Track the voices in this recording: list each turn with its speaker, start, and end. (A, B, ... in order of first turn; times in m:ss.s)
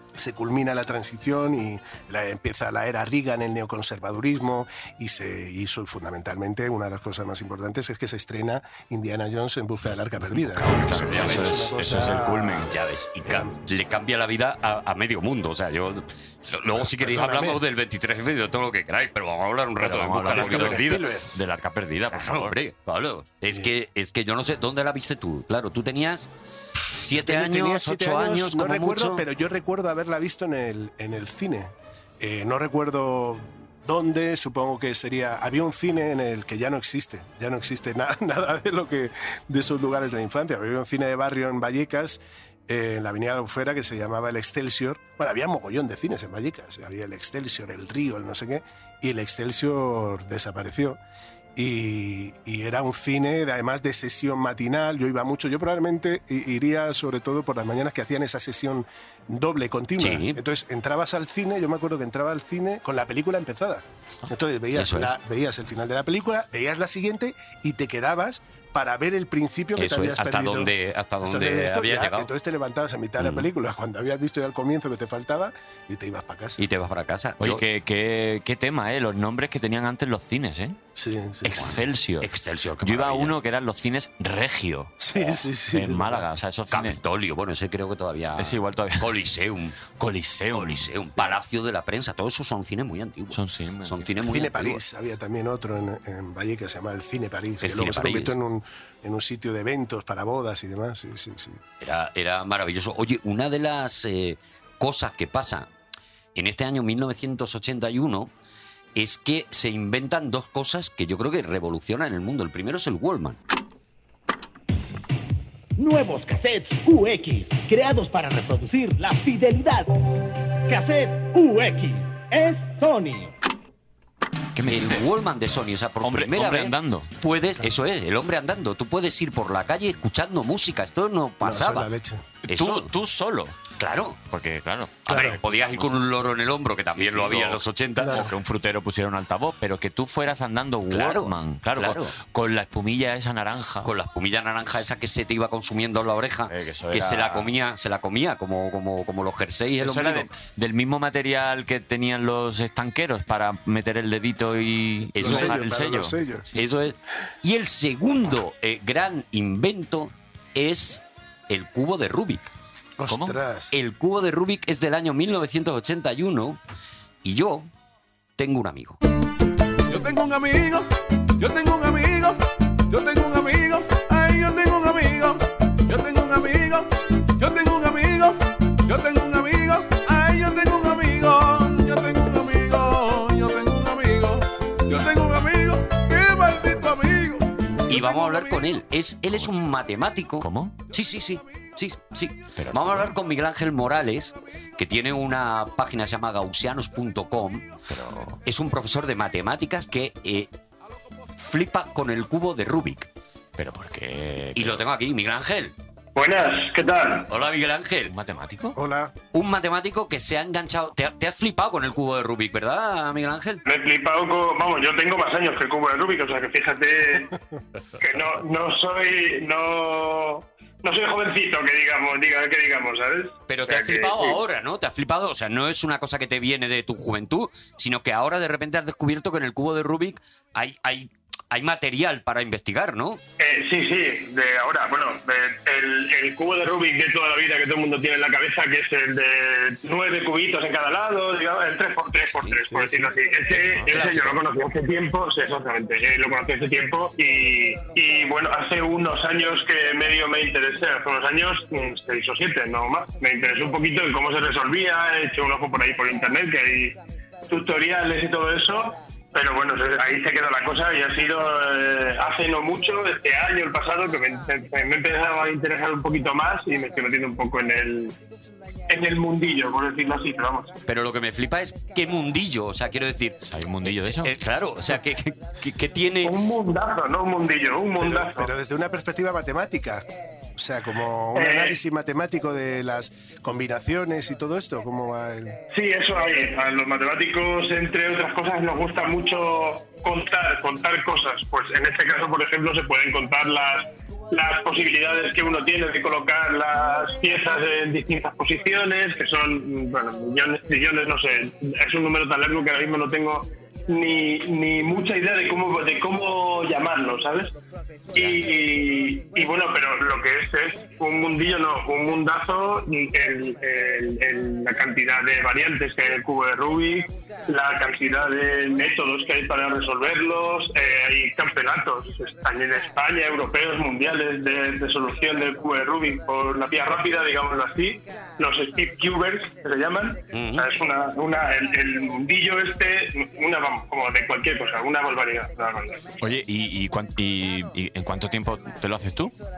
0:00.2-0:12.7 A
0:10.4-0:12.7 B
0:11.0-0:11.7 C
0:12.6-0:21.0 C
0:13.2-0:13.5 A
0:16.8-0:17.6 A
0:19.8-0:22.6 B
0:20.3-0:21.3 A
0:22.1-0:26.3 C
0:26.9-0:29.2 C
0:27.1-0:51.0 A
0:51.6-1:10.7 A
1:00.0-1:00.4 C
1:04.7-1:05.1 C
1:09.8-1:12.3 C
1:11.2-1:16.6 A
1:13.2-1:13.4 C
1:16.6-1:17.6 C
1:17.4-1:20.8 B
1:21.0-1:21.7 A
1:21.4-1:22.3 B
1:21.5-1:23.3 C
1:22.8-1:25.0 B
1:25.0-1:26.2 A
1:25.7-1:27.0 B
1:26.7-1:29.8 C
1:28.4-1:29.1 B
1:30.0-1:30.9 B
1:30.5-1:34.8 C
1:33.3-1:34.1 B
1:34.2-1:41.6 A
1:37.6-1:38.3 C
1:41.8-1:45.7 C
1:46.3-1:48.3 C
1:48.9-1:53.4 C
1:55.8-2:00.0 D
2:00.6-2:03.4 D
2:04.6-2:05.0 B
2:04.7-2:11.9 C
2:06.0-2:07.1 B
2:11.4-2:12.2 A
2:12.5-2:12.9 C
2:12.5-2:13.6 B
2:13.8-2:14.2 C
2:14.3-2:15.9 B
2:15.1-2:18.2 C
2:15.1-2:15.4 A
2:16.9-2:23.9 B
2:18.0-2:18.3 A
2:20.9-2:22.1 C
2:23.8-2:30.3 C
2:26.5-2:27.5 B
2:29.8-2:36.6 B
2:35.1-2:35.6 C
2:35.2-2:36.5 A
2:36.5-2:42.5 C
2:43.0-2:43.7 A
2:43.1-2:43.4 B
2:43.7-2:46.6 C
2:47.2-2:47.7 C
2:48.4-2:49.0 C
2:49.9-2:52.4 E
2:52.9-2:56.9 E
2:57.4-3:08.7 E
3:07.9-3:17.7 C
3:10.4-3:10.8 B
3:12.6-3:13.1 B
3:17.9-3:18.4 B
3:18.4-3:20.5 C
3:21.4-3:23.1 C
3:23.6-3:24.8 B
3:24.5-3:25.7 C
3:26.1-3:27.3 F
3:27.3-3:28.1 C
3:28.1-3:28.8 B
3:28.7-3:29.1 A
3:29.3-3:33.6 C
3:33.6-3:37.3 F
3:38.0-3:44.4 F
3:43.5-3:53.2 C
3:53.4-4:17.0 F
4:02.4-4:02.6 C
4:02.6-4:03.1 A
4:03.5-4:04.4 C
4:03.5-4:03.9 B
4:17.5-4:28.1 F
4:28.9-4:30.7 F
4:30.8-4:33.5 C
4:33.5-4:34.3 B
4:34.1-4:36.4 C
4:36.2-4:38.5 F
4:37.9-4:45.6 A
4:41.3-4:41.8 F
4:45.7-5:07.5 F
5:08.1-5:36.0 F
5:30.3-5:30.6 C
5:36.2-5:39.3 B